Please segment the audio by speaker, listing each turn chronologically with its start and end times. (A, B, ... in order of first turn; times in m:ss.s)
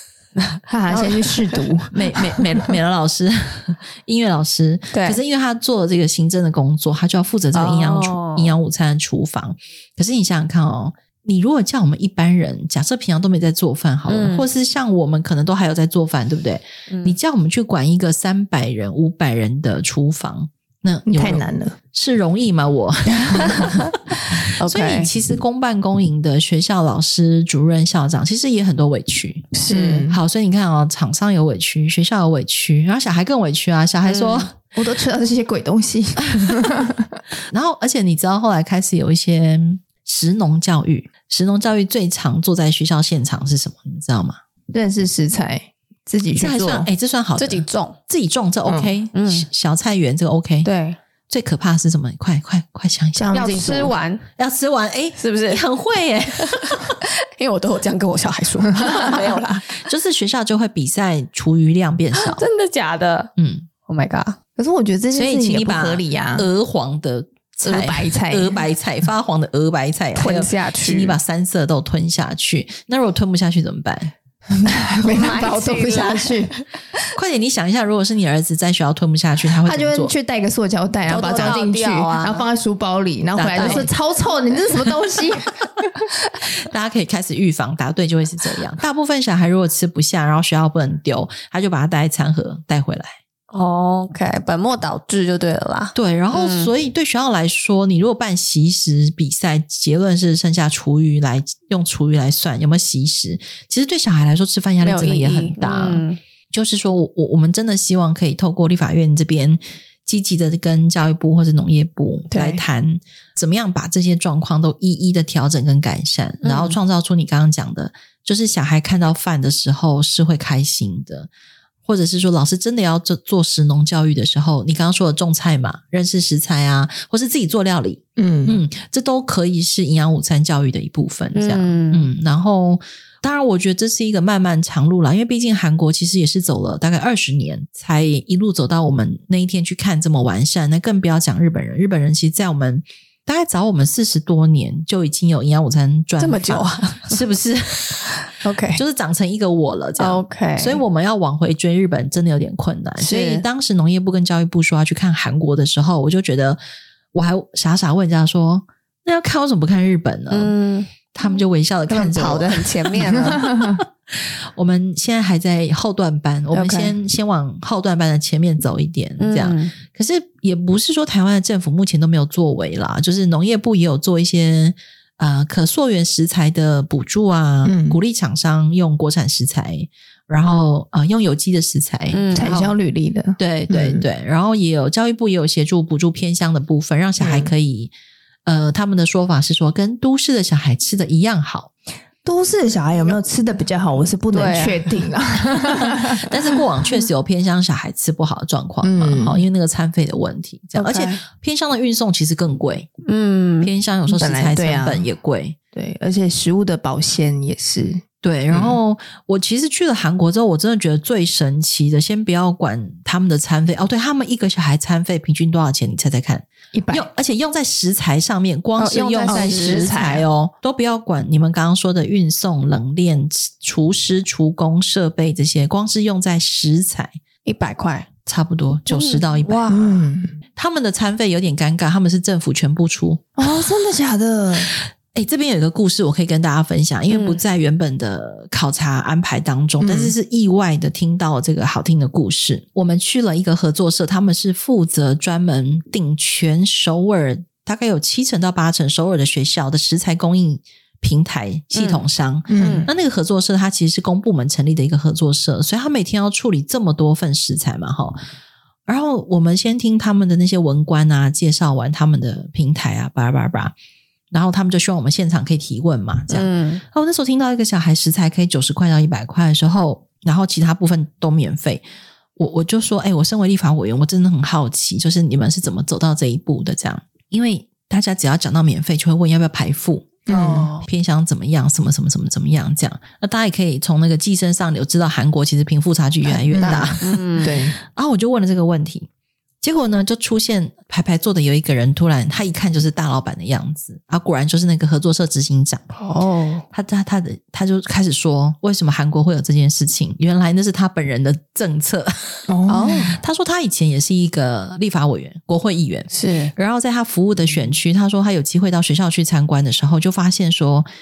0:00.5-0:01.6 A
0:00.7-0:02.6 B
0:01.9-0:34.5 C
0:04.9-0:05.2 A
0:07.5-0:08.6 A
0:14.1-0:14.5 A
0:16.9-0:17.2 A
0:21.1-0:21.8 B
0:23.2-0:23.5 B
0:23.4-0:25.1 A
0:29.5-0:30.1 A
0:29.7-0:30.2 B
0:34.0-0:34.5 A
0:34.7-0:37.2 B
0:36.2-0:36.6 C
0:37.5-0:44.4 C
0:44.7-0:46.9 B
0:46.4-0:50.7 C
0:47.4-0:48.0 A
0:48.6-0:48.9 B
0:49.1-0:49.5 A
0:50.6-0:51.0 A
0:51.3-0:53.3 C
0:53.2-0:53.9 B
0:53.3-0:54.2 A
0:54.4-0:57.0 C
0:55.2-0:55.6 A
0:56.4-0:59.8 A
0:59.7-1:02.4 C
1:02.1-1:03.3 A
1:03.4-1:03.7 C
1:03.8-1:04.4 A
1:04.6-1:06.5 B
1:05.1-1:14.1 C
1:07.6-1:08.6 B
1:10.1-1:11.2 A
1:14.6-1:16.5 B
1:15.0-1:16.6 A
1:17.1-1:20.1 C
1:19.5-1:25.8 B
1:21.1-1:22.4 A
1:23.4-1:23.9 C
1:23.5-1:23.9 A
1:26.4-1:33.2 C
1:33.5-1:36.7 A
1:35.9-2:01.3 C
1:44.8-1:46.2 A
1:52.3-1:52.6 A
1:56.4-1:56.8 A
2:01.8-2:28.2 C
2:08.2-2:08.6 B
2:11.3-2:12.0 A
2:26.2-2:27.2 A
2:28.0-2:28.8 A
2:28.8-2:36.6 C
2:30.0-2:30.8 A
2:33.0-2:33.4 A
2:37.1-2:40.5 C
2:40.3-2:40.9 A
2:41.1-3:02.7 C
2:41.9-2:43.5 A
2:43.4-2:43.8 B
2:46.5-2:46.9 A
2:49.2-2:49.7 A
2:57.6-2:58.0 B
3:02.1-3:02.6 A
3:02.3-3:04.0 B
3:03.4-3:07.9 C
3:07.2-3:07.5 B
3:08.4-3:11.7 C
3:12.2-3:16.6 B
3:14.3-3:15.0 A
3:15.6-3:22.9 C
3:18.8-3:19.4 B
3:20.8-3:21.2 A
3:23.1-3:23.7 A
3:23.6-3:25.6 C
3:24.1-3:25.0 B
3:25.7-3:28.8 B
3:28.2-3:47.1 C
3:36.7-3:37.0 B
3:38.8-3:40.0 A
3:39.3-3:40.2 B
3:47.4-3:48.1 A
3:48.2-3:49.7 C
3:48.9-3:50.0 A
3:49.7-3:50.4 B
3:50.6-3:53.6 C
3:53.4-3:54.7 B
3:54.6-4:18.2 C
3:57.1-3:57.4 A
3:59.8-4:00.1 B
4:11.7-4:12.0 A
4:12.5-4:12.9 B
4:12.6-4:12.9 A
4:18.9-4:23.7 C
4:24.3-4:31.8 C
4:26.3-4:26.8 A
4:32.4-4:49.1 C
4:40.3-4:40.7 B
4:40.3-4:40.8 A
4:46.2-4:47.8 B
4:46.6-4:47.5 A
4:49.6-4:55.8 C
4:56.0-4:56.6 A
4:56.7-5:10.9 C
5:02.5-5:03.1 B
5:02.7-5:03.1 A
5:06.1-5:06.5 A